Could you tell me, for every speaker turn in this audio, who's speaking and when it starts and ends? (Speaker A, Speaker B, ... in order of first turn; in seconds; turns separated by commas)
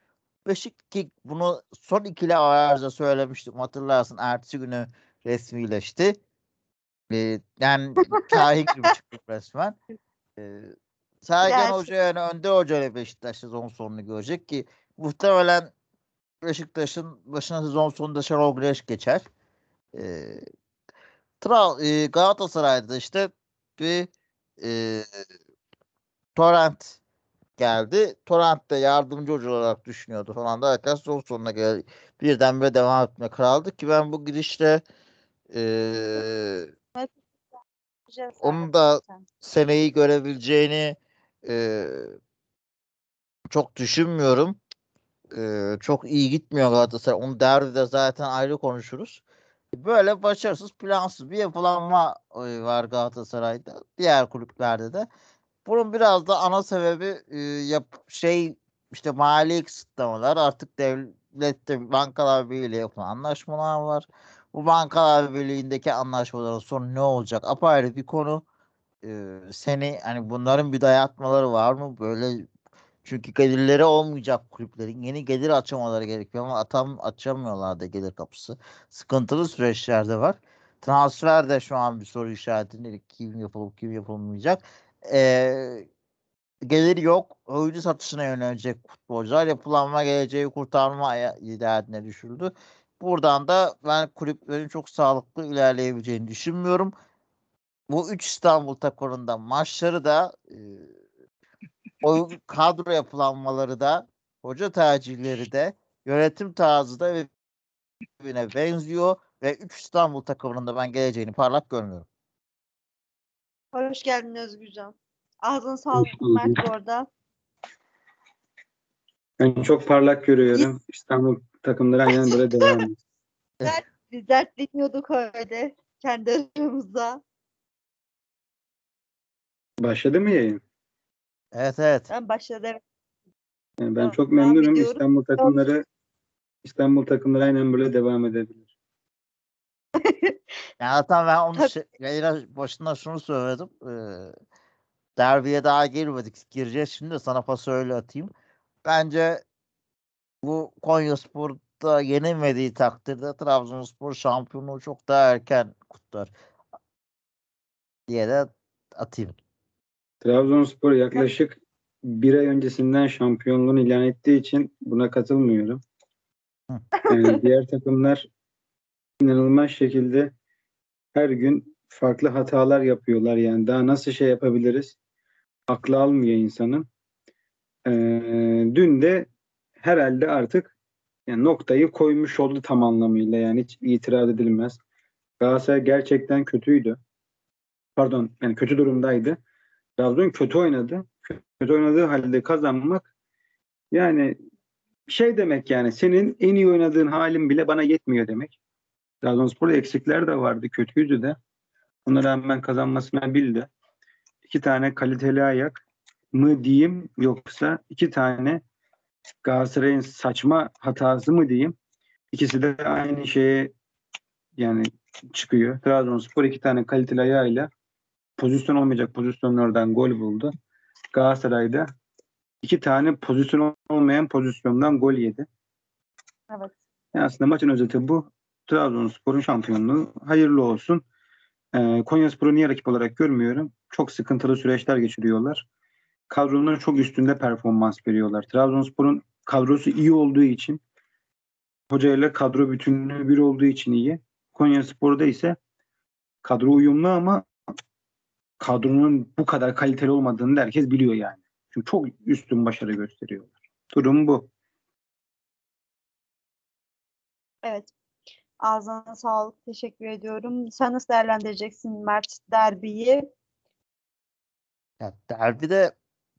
Speaker A: 0.4-6.2, Speaker A: 7.1-9.8, Speaker B: 8.1-8.9, Speaker A: 10.4-15.7, Speaker B: 11.4-11.9, Speaker A: 16.4-19.2, Speaker A: 19.9-20.4, Speaker A: 21.4-25.1, Speaker A: 26.4-27.0, Speaker A: 27.6-34.8, Speaker A: 35.5-36.7, Speaker B: 38.1-39.2, Speaker A: 38.4-42.1, Speaker A: 43.5-44.6, Speaker A: 45.3-49.2, Speaker A: 49.7-55.1, Speaker A: 55.6-68.4, Speaker A: 69.0-72.5, Speaker A: 73.0-85.9, Speaker A: 86.6-96.9, Speaker A: 97.9-100.9, Speaker A: 102.0-107.3, Speaker A: 108.2-112.0, Speaker B: 113.7-117.1, Speaker C: 116.0-116.6, Speaker C: 119.4-122.9, Speaker B: 122.1-122.8, Speaker B: 123.6-127.2, Speaker C: 129.8-130.6, Speaker A: 131.5-132.1, Speaker B: 132.1-132.8, Speaker C: 133.8-135.8, Speaker B: 134.0-135.6, Speaker C: 136.6-138.7, Speaker B: 140.0-140.4, Speaker A: 140.8-144.3, Speaker A: 145.2-148.3, Speaker A: 148.8-149.4, Speaker A: 150.4-156.3, Speaker A: 158.1-159.3, Speaker C: 160.2-165.8, Speaker B: 167.0-167.4, Speaker C: 167.1-168.2, Speaker C: 169.2-170.3, Speaker C: 171.1-174.9, Speaker C: 175.7-176.9, Speaker C: 177.8-179.3, Speaker C: 179.8-180.7, Speaker C: 181.3-184.8, Speaker C: 185.4-187.0, Speaker C: 188.0-189.4, Speaker C: 190.0-193.1, Speaker C: 193.9-194.3, Speaker C: 195.1-198.6, Speaker C: 199.2-201.4, Speaker C: 202.1-203.7, Speaker C: 204.5-205.8, Speaker C: 206.3-208.6, Speaker C: 209.4-211.8, Speaker C: 212.3-213.7, Speaker C: 214.6-217.7, Speaker C: 218.4-220.5, Speaker C: 221.1-221.9, Speaker C: 222.6-225.5, Speaker C: 227.1-231.0, Speaker C: 231.7-235.7, Speaker C: 236.3-240.8, Speaker C: 241.9-245.6, Speaker C: 246.4-247.4, Speaker C: 248.6-254.5, Speaker B: 257.6-257.9, Speaker B: 258.6-263.2, Speaker A: 265.0-265.9